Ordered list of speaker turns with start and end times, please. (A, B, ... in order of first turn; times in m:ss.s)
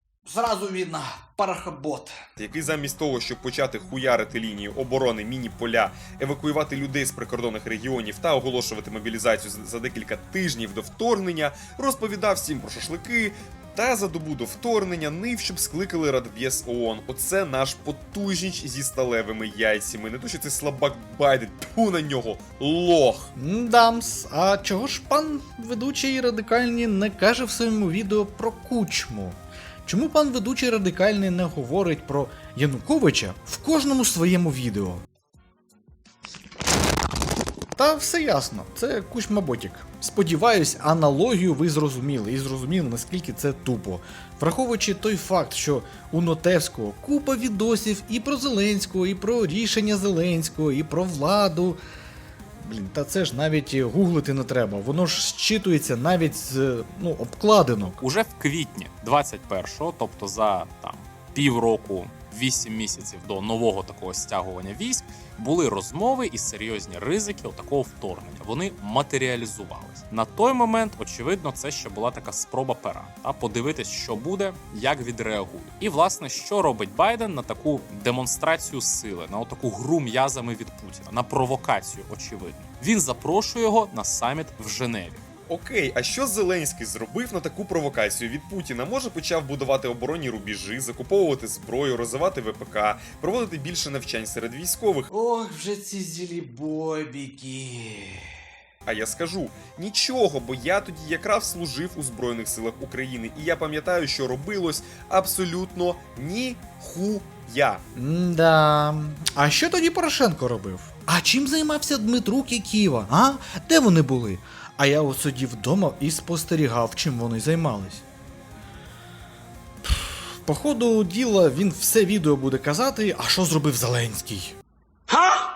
0:00.3-0:02.2 A
0:02.4-0:23.3 B
0:23.4-0:35.0 C
0:37.8-0:51.8 C
0:52.6-0:58.0 C
0:58.0-1:25.2 D
1:25.5-1:35.1 B
1:35.1-1:38.3 A
1:38.8-1:47.8 B
1:48.0-1:58.1 C
1:59.8-2:04.6 C